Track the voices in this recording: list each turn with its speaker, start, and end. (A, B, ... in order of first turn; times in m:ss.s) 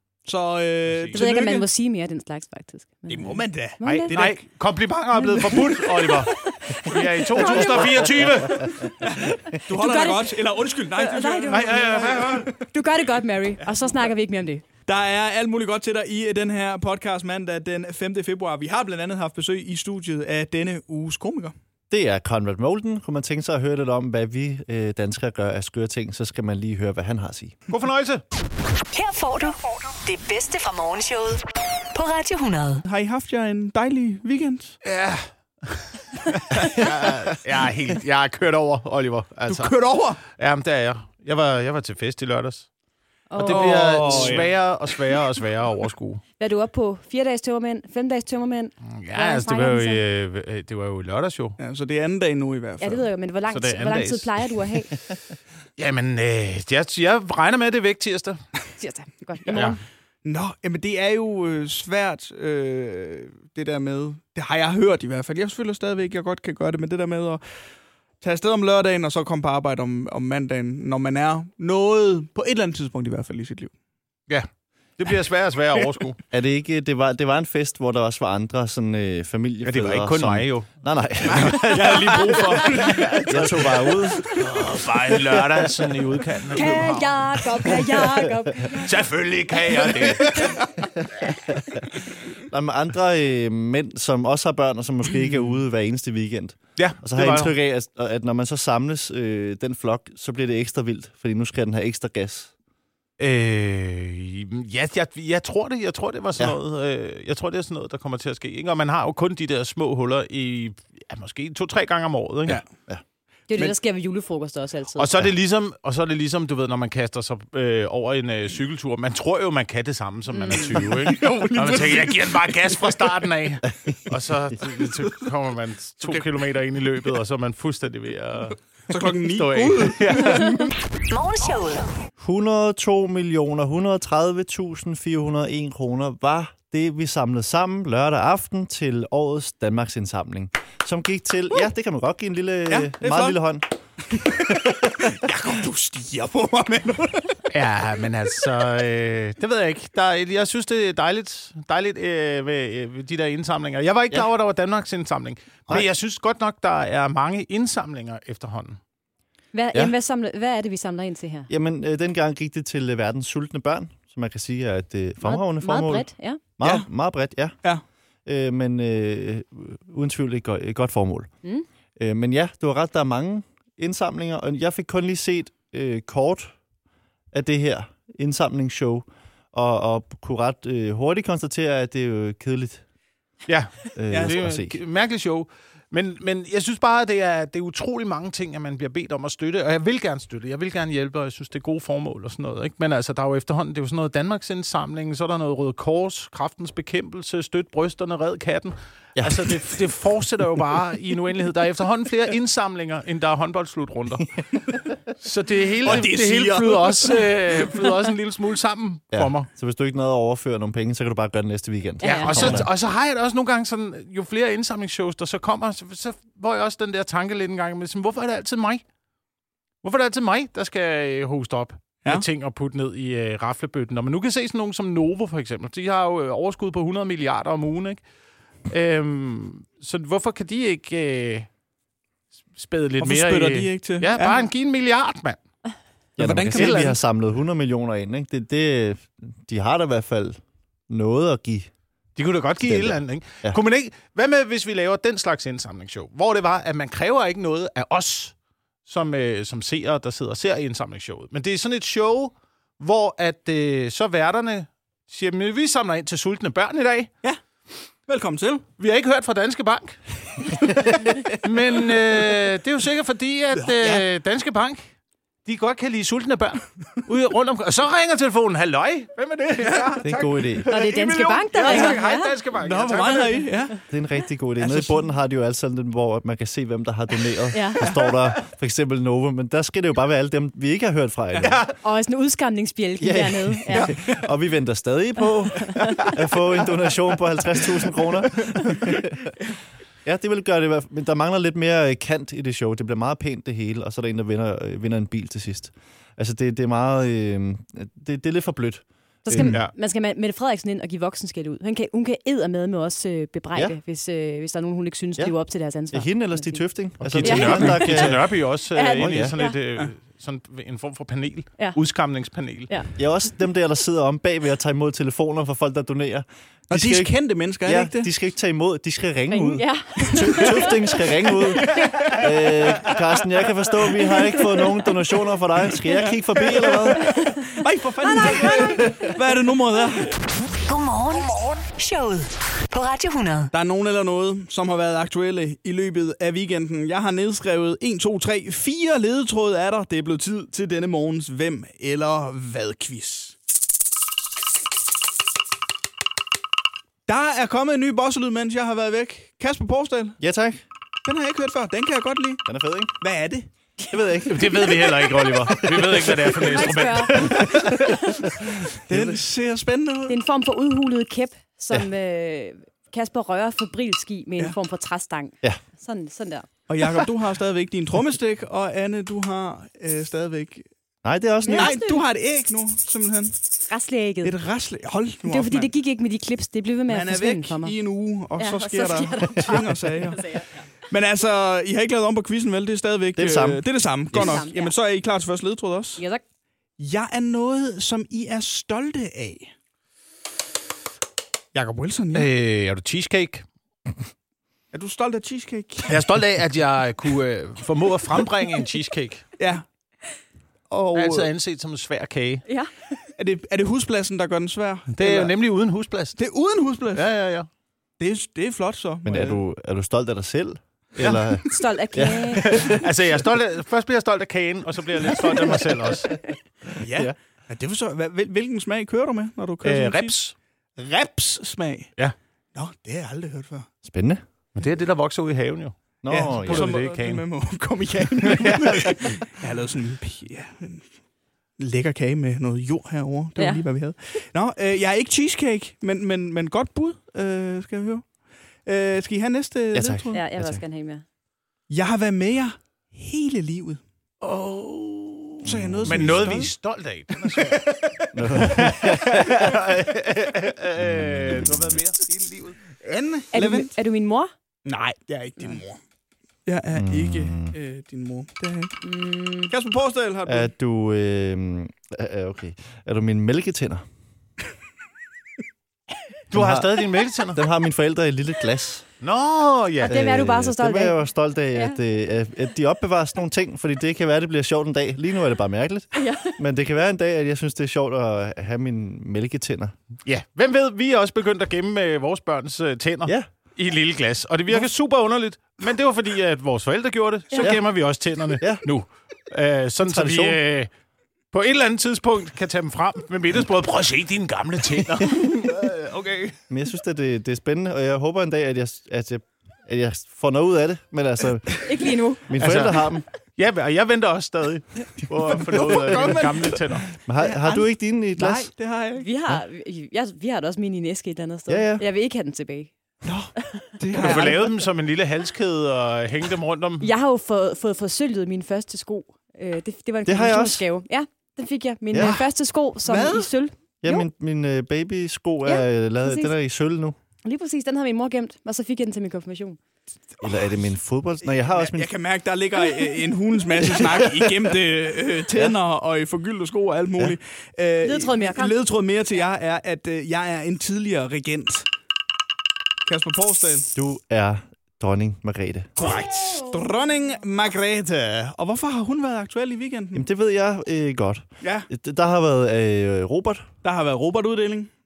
0:00.2-0:01.7 A
0:00.9-0:01.2 B
0:01.1-0:04.2 C
0:03.1-0:04.4 A
0:03.8-0:08.9 B
0:05.2-0:08.4 C
0:07.4-0:07.8 A
0:08.7-0:12.6 A
0:09.7-0:10.4 C
0:10.9-0:14.7 C
0:11.5-0:12.5 B
0:14.9-0:21.6 A
0:21.9-0:27.6 D
0:27.7-0:28.2 B
0:28.9-0:32.8 E
0:32.8-0:34.8 A
0:34.8-0:39.8 B
0:39.5-0:40.2 A
0:40.3-0:42.7 B
0:43.3-0:44.4 C
0:43.4-0:44.6 A
0:43.4-0:46.2 B
0:46.4-0:50.0 C
0:48.9-0:51.6 B
0:51.6-0:53.0 A
0:52.8-0:55.0 C
0:53.5-0:54.3 B
0:55.8-0:58.4 B
0:58.8-0:59.8 C
0:59.5-0:59.8 B
1:00.2-1:07.4 A
1:08.2-1:13.7 A
1:14.3-1:16.2 B
1:16.3-1:22.3 D
1:19.6-1:23.5 B
1:21.4-1:23.9 A
1:23.3-1:24.3 D
1:24.3-1:27.9 B
1:26.5-1:28.9 C
1:28.8-1:30.6 B
1:29.9-1:30.4 C
1:31.0-1:31.9 D
1:32.4-1:42.5 D
1:36.8-1:37.5 B
1:43.2-1:52.6 B
1:52.5-1:53.0 D
1:53.5-1:55.2 C
1:55.0-2:08.6 B
2:00.3-2:00.6 C
2:00.5-2:02.6 A
2:08.9-2:10.6 A
2:09.2-2:10.7 B
2:11.1-2:11.9 E
2:12.2-2:23.7 D
2:22.7-2:23.4 A
2:24.1-2:27.4 A
2:24.3-2:25.1 D
2:27.5-2:38.8 B
2:39.5-2:41.5 C
2:41.5-2:46.1 D
2:45.2-2:46.4 C
2:46.6-2:47.6 D
2:46.6-2:46.9 A
2:48.3-2:51.3 D
2:52.0-2:56.5 D
2:57.3-3:02.8 D
3:03.5-3:29.5 B
3:04.0-3:04.8 D
3:04.1-3:04.4 A
3:19.2-3:19.7 D
3:25.8-3:27.3 A
3:29.1-3:32.7 D
3:32.0-3:32.6 C
3:32.0-3:38.8 B
3:39.8-3:48.0 B
3:48.7-3:51.5 B
3:52.6-3:55.4 B
3:53.0-3:54.5 A
3:56.2-4:01.7 D
3:56.2-3:57.0 A
3:56.5-3:57.0 B
4:02.2-4:08.4 B
4:02.6-4:03.6 D
4:08.9-4:17.1 B
4:18.1-4:18.7 A
4:18.8-4:24.9 B
4:23.6-4:24.0 A
4:25.4-4:33.5 B
4:29.6-4:30.0 A
4:30.0-4:30.8 D
4:30.7-4:32.4 C
4:31.7-4:32.0 A
4:32.6-4:33.8 A
4:33.9-4:41.7 D
4:34.6-4:35.0 A
4:37.5-4:37.9 C
4:41.4-4:41.7 B
4:41.8-4:43.9 C
4:43.0-4:49.4 D
4:50.0-4:59.6 D
4:59.3-5:06.6 C
5:05.9-5:08.3 D
5:07.0-5:12.7 B
5:07.2-5:08.1 C
5:08.7-5:09.6 C
5:09.0-5:09.4 D
5:13.0-5:17.1 D
5:16.7-5:18.1 A
5:17.6-5:27.1 D
5:19.3-5:20.8 C
5:21.4-5:22.0 C
5:21.7-5:22.2 A
5:26.5-5:30.1 A
5:27.0-5:27.5 C
5:28.0-5:29.1 C
5:30.7-5:33.5 E
5:33.5-5:43.4 A
5:47.1-5:50.2 A
5:50.2-5:50.6 D
5:51.0-5:52.4 A
5:52.5-5:53.0 D
5:53.0-5:53.5 A
5:53.9-5:56.4 D
5:54.3-5:57.7 B
5:56.4-5:58.0 C
5:57.2-5:59.2 D
5:57.5-5:57.8 A
5:58.9-6:00.2 A
6:00.1-6:06.5 C
6:06.7-6:10.7 A
6:11.0-6:11.8 D
6:11.5-6:12.0 C
6:11.5-6:13.4 A
6:13.7-6:14.4 C
6:14.2-6:15.7 A
6:15.2-6:17.8 C
6:16.9-6:20.4 A
6:18.4-6:20.5 C
6:20.9-6:26.0 A
6:23.2-6:24.4 D
6:24.1-6:24.7 C
6:26.0-6:26.2 C
6:26.8-6:29.5 A
6:31.5-6:32.3 A
6:32.1-6:33.5 B
6:34.7-6:36.1 A
6:35.9-6:39.3 B
6:39.4-6:39.6 A
6:40.7-6:41.3 A
6:40.9-6:42.4 B
6:42.5-6:42.7 C
6:43.2-6:45.3 A
6:45.0-6:46.2 B
6:46.2-6:47.1 A
6:46.9-6:47.5 B
6:48.0-6:49.4 A
6:49.0-6:52.8 D
6:51.5-6:52.6 C
6:52.4-6:56.1 B
6:56.8-7:00.2 A
6:59.6-7:00.3 B
7:00.8-7:01.9 A
7:02.6-7:03.7 A
7:03.8-7:04.2 D
7:04.6-7:07.2 B
7:06.0-7:06.8 D
7:06.1-7:10.9 A
7:08.2-7:09.2 B
7:11.6-7:18.1 A
7:13.4-7:13.6 C
7:18.6-7:20.2 A
7:19.7-7:20.6 D
7:20.1-7:21.0 C
7:21.7-7:23.8 A
7:24.2-7:27.6 B
7:25.4-7:26.5 A
7:25.5-7:26.3 D
7:27.2-7:28.8 A
7:28.1-7:29.7 D
7:28.4-7:32.6 B
7:30.8-7:31.5 D
7:32.8-7:33.7 A
7:33.3-7:34.3 C
7:34.6-7:35.8 A
7:36.5-7:38.8 A
7:36.7-7:37.6 D
7:38.8-7:39.5 C
7:39.5-7:40.5 A
7:40.3-7:43.8 D
7:46.3-7:47.4 B
7:46.3-7:48.9 D
7:49.0-7:50.0 B
7:49.8-7:51.0 C
7:49.9-7:59.7 D
7:51.5-7:51.8 C
7:56.0-7:56.4 C
8:00.0-8:10.7 B
8:07.4-8:07.6 D
8:08.4-8:08.7 D
8:09.8-8:10.4 D
8:11.3-8:16.3 B
8:16.5-8:23.0 D
8:21.6-8:22.3 C
8:22.4-8:26.9 B
8:25.5-8:26.7 A
8:27.0-8:28.5 D
8:27.2-8:29.1 A
8:29.0-8:32.7 C
8:31.5-8:31.8 D
8:33.0-8:34.6 A
8:33.4-8:33.8 C
8:34.0-8:36.9 B
8:36.8-8:44.1 C
8:40.1-8:40.6 D
8:41.9-8:42.2 D
8:42.8-8:43.3 A
8:43.8-8:47.0 D
8:45.4-8:46.3 C
8:47.2-8:49.6 C
8:50.2-8:51.9 D
8:51.3-9:01.7 A
8:53.7-8:54.4 D
8:57.8-8:58.6 C
9:02.8-9:03.7 A
9:03.8-9:05.7 D
9:05.8-9:10.0 A
9:09.9-9:13.5 D
9:11.4-9:11.7 A
9:13.6-9:14.7 A